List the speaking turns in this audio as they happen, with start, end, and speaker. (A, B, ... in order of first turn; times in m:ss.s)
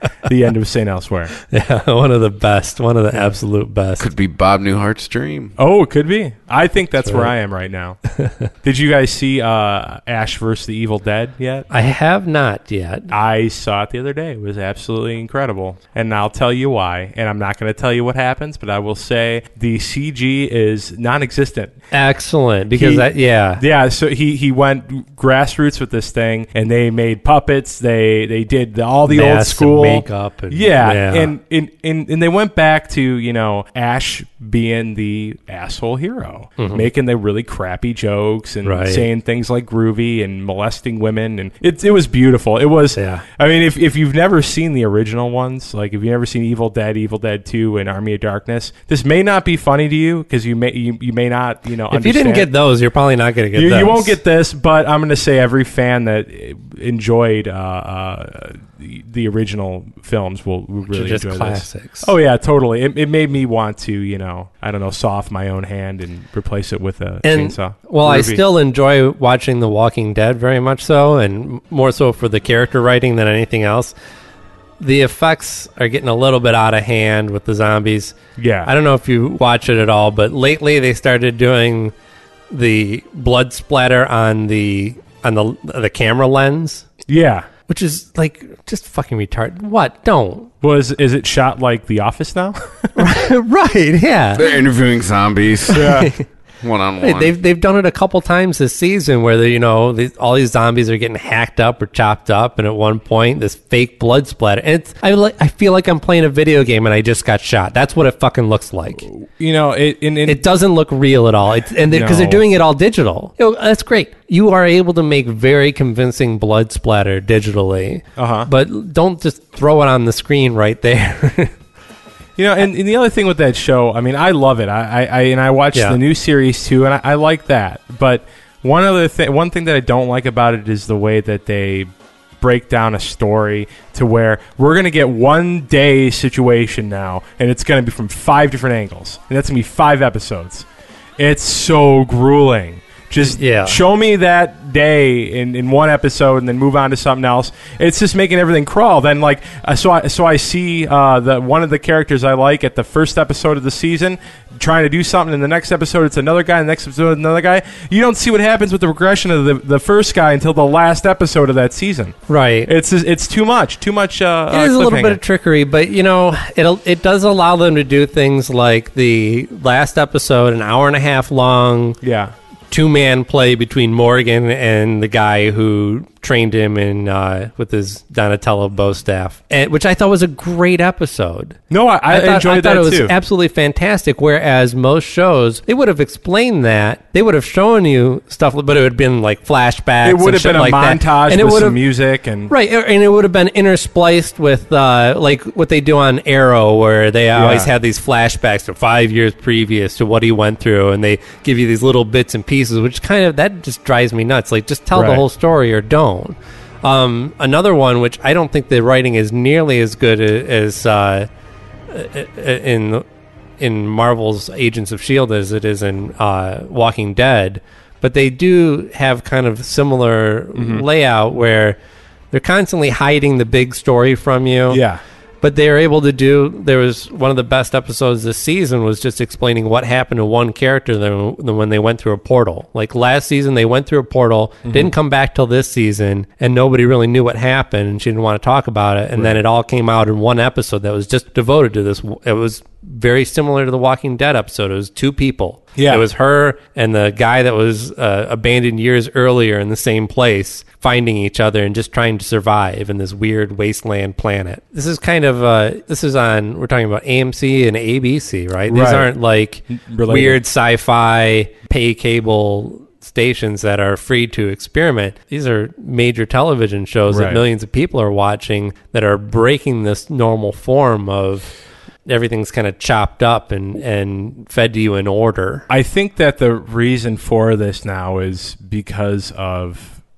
0:00.3-0:01.3 A
0:01.4-0:04.1 B
0:04.0-0:05.5 C
0:05.6-0:08.0 A
0:07.0-0:07.3 B
0:08.6-0:11.7 A
0:11.7-0:13.1 B
0:13.1-0:21.8 A
0:21.9-0:23.6 B
0:22.7-0:23.1 A
0:23.6-0:52.5 A
0:29.1-0:31.3 B
0:36.6-0:36.9 B
0:38.6-0:39.1 B
0:43.0-0:43.2 B
0:51.9-0:54.2 B
0:53.5-1:08.4 A
1:00.9-1:02.1 B
1:07.2-1:13.9 B
1:14.8-1:21.9 B
1:18.4-1:18.7 A
1:22.5-1:26.9 B
1:27.1-1:27.5 A
1:27.7-1:30.5 B
1:30.6-1:33.0 A
1:33.0-1:34.5 B
1:34.4-1:35.9 C
1:35.7-1:36.1 A
1:35.8-1:36.3 B
1:36.6-1:37.3 C
1:37.0-1:49.0 B
1:49.0-1:50.4 A
1:50.3-2:01.6 B
1:51.9-1:52.4 A
1:58.2-1:58.5 A
2:02.4-2:20.7 A
2:05.7-2:06.0 B
2:21.2-2:45.2 A
2:23.2-2:23.8 B
2:42.3-2:42.7 B
2:44.5-2:52.0 B
2:52.0-2:52.3 A
2:52.7-3:01.6 B
3:01.7-3:03.1 A
3:02.1-3:11.8 B
3:10.0-3:12.5 A
3:12.5-3:31.3 B
3:17.4-3:17.7 A
3:24.9-3:25.2 A
3:31.9-3:33.0 B
3:33.6-3:41.8 B
3:40.6-3:40.8 A
3:42.3-3:44.8 B
3:44.7-3:45.0 A
3:45.4-4:31.5 B
3:54.7-3:54.9 A
4:05.8-4:06.0 A
4:18.7-4:19.1 A
4:19.7-4:20.4 A
4:27.1-4:27.4 A
4:32.1-4:35.7 B
4:35.7-4:40.0 A